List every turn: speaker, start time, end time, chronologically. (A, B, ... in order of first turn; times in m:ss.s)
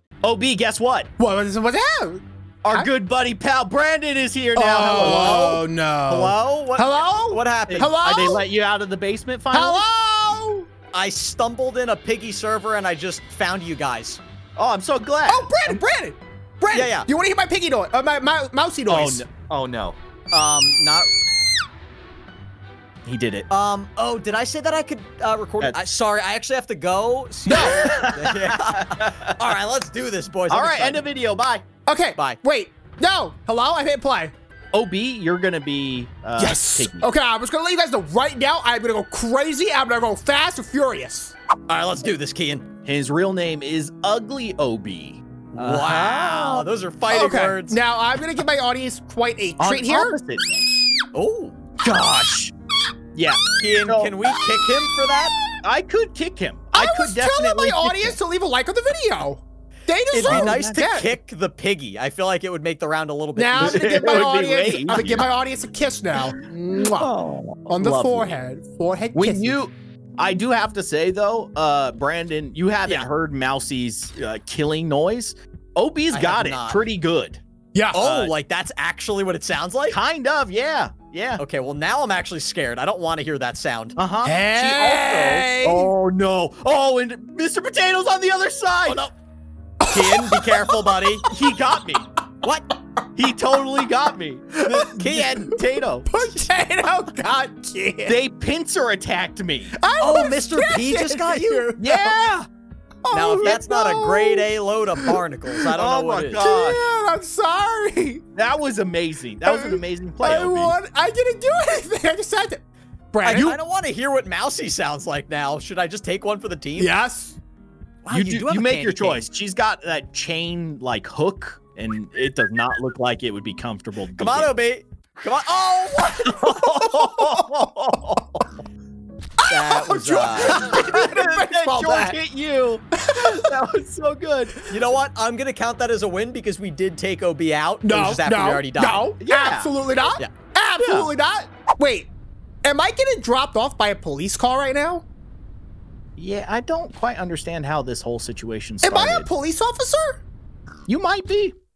0:00.2-0:01.1 A
0:01.2-0:02.9 B
0:02.6-0:06.3 A
0:04.6-0:08.4 B
0:04.8-0:07.9 C
0:07.7-0:09.8 A
0:09.5-0:10.7 B
0:10.9-0:14.2 C
0:14.6-0:15.8 A
0:15.3-0:19.3 B
0:16.7-0:17.1 C
0:18.9-0:20.0 A
0:20.3-0:21.1 C
0:23.0-0:23.5 A
0:23.5-0:31.1 C
0:27.5-0:29.4 A
0:27.5-0:27.8 B
0:30.5-0:31.6 A
0:31.9-0:34.3 B
0:34.7-0:37.1 A
0:36.4-0:41.3 B
0:41.7-0:42.6 C
0:42.8-0:46.7 A
0:45.5-0:47.8 C
0:47.1-0:50.2 B
0:49.6-0:50.7 A
0:51.1-0:51.6 C
0:51.8-0:52.5 A
0:53.2-0:54.2 A
0:53.6-0:55.4 C
0:55.6-0:58.2 A
0:56.7-1:01.2 B
1:00.1-1:05.3 C
1:00.2-1:00.9 A
1:03.4-1:07.1 B
1:03.6-1:05.3 A
1:06.2-1:08.4 A
1:07.7-1:09.6 B
1:09.1-1:17.4 A
1:16.1-1:16.8 C
1:17.7-1:18.0 B
1:17.9-1:20.0 C
1:18.0-1:18.3 A
1:19.9-1:21.4 A
1:21.4-1:24.0 C
1:24.0-1:29.0 A
1:24.2-1:25.9 B
1:24.7-1:25.4 C
1:28.9-1:29.1 C
1:29.8-1:31.6 B
1:29.9-1:31.3 C
1:31.3-1:32.1 A
1:32.4-1:32.7 C
1:33.2-1:36.1 A
1:34.5-1:35.0 B
1:34.7-1:35.6 C
1:36.0-1:38.2 B
1:38.1-1:39.8 A
1:39.8-1:42.2 B
1:40.0-1:41.7 C
1:41.8-1:42.5 A
1:43.0-1:45.2 B
1:43.1-1:46.4 C
1:45.8-1:46.8 A
1:46.4-1:48.2 B
1:48.4-1:50.8 A
1:49.4-1:53.6 B
1:53.2-1:56.9 C
1:56.8-1:57.4 B
1:58.0-1:59.2 C
1:58.1-2:04.5 A
2:04.2-2:07.0 C
2:06.2-2:08.4 A
2:09.4-2:12.2 B
2:09.5-2:10.7 C
2:10.4-2:14.8 A
2:12.9-2:13.5 B
2:14.7-2:19.1 C
2:17.8-2:22.1 B
2:19.2-2:19.7 A
2:20.8-2:21.1 A
2:22.6-2:25.0 B
2:26.2-2:29.3 A
2:28.8-2:30.2 B
2:30.9-2:31.6 A